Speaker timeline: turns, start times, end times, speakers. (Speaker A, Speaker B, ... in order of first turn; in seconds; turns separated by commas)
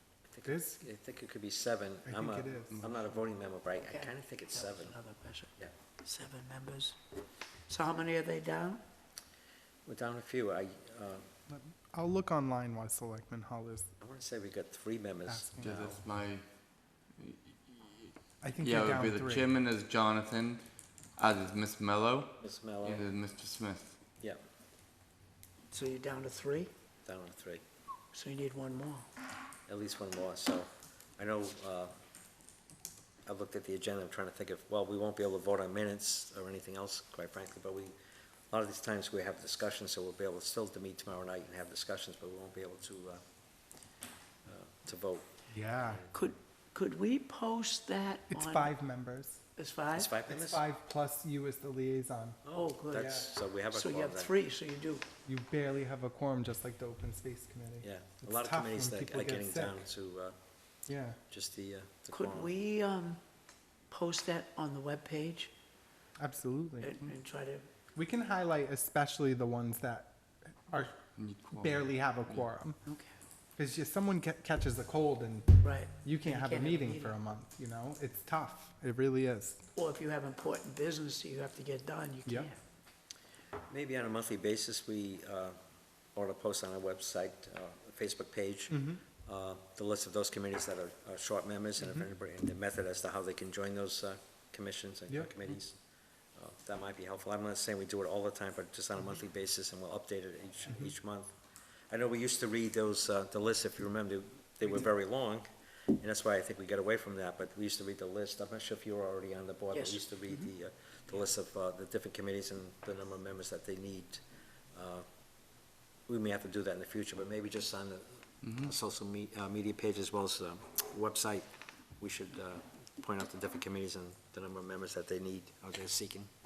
Speaker A: 0.3-5.0, Speaker B: 0.4-0.8, Speaker B: 2.0-2.9, Speaker C: 3.8-5.5, Speaker C: 6.0-7.0, Speaker C: 7.7-8.8, Speaker A: 9.8-11.3, Speaker B: 11.5-13.9, Speaker A: 14.0-16.0, Speaker B: 15.3-15.7, Speaker D: 15.6-16.4, Speaker D: 17.1-23.9, Speaker B: 18.4-19.5, Speaker A: 22.4-23.1, Speaker C: 25.7-26.7, Speaker A: 27.0-27.6, Speaker C: 28.1-29.1, Speaker A: 29.7-31.9, Speaker A: 33.2-37.9, Speaker A: 38.5-43.2, Speaker A: 44.4-46.1, Speaker B: 45.5-46.0, Speaker C: 46.1-48.7, Speaker B: 48.3-49.4, Speaker C: 49.6-50.1, Speaker A: 49.9-50.6, Speaker B: 50.3-52.4, Speaker A: 52.4-54.3, Speaker C: 52.5-55.0, Speaker B: 55.2-59.8, Speaker A: 57.8-60.3, Speaker B: 60.9-61.2, Speaker A: 61.3-62.5, Speaker C: 62.1-63.2, Speaker C: 63.9-65.5, Speaker B: 66.2-67.1, Speaker C: 66.8-67.7, Speaker B: 67.9-70.1, Speaker B: 70.7-71.0, Speaker D: 71.2-72.4, Speaker B: 71.5-72.8, Speaker C: 72.8-73.1, Speaker B: 73.6-79.6, Speaker C: 75.6-77.1, Speaker C: 79.7-82.6, Speaker A: 83.7-85.6, Speaker A: 86.1-95.8, Speaker B: 88.7-89.0, Speaker A: 96.3-101.3, Speaker A: 101.9-105.4, Speaker A: 106.0-114.2, Speaker C: 109.7-110.0, Speaker A: 114.7-115.0, Speaker A: 116.1-121.5, Speaker D: 118.4-118.7, Speaker A: 122.0-126.3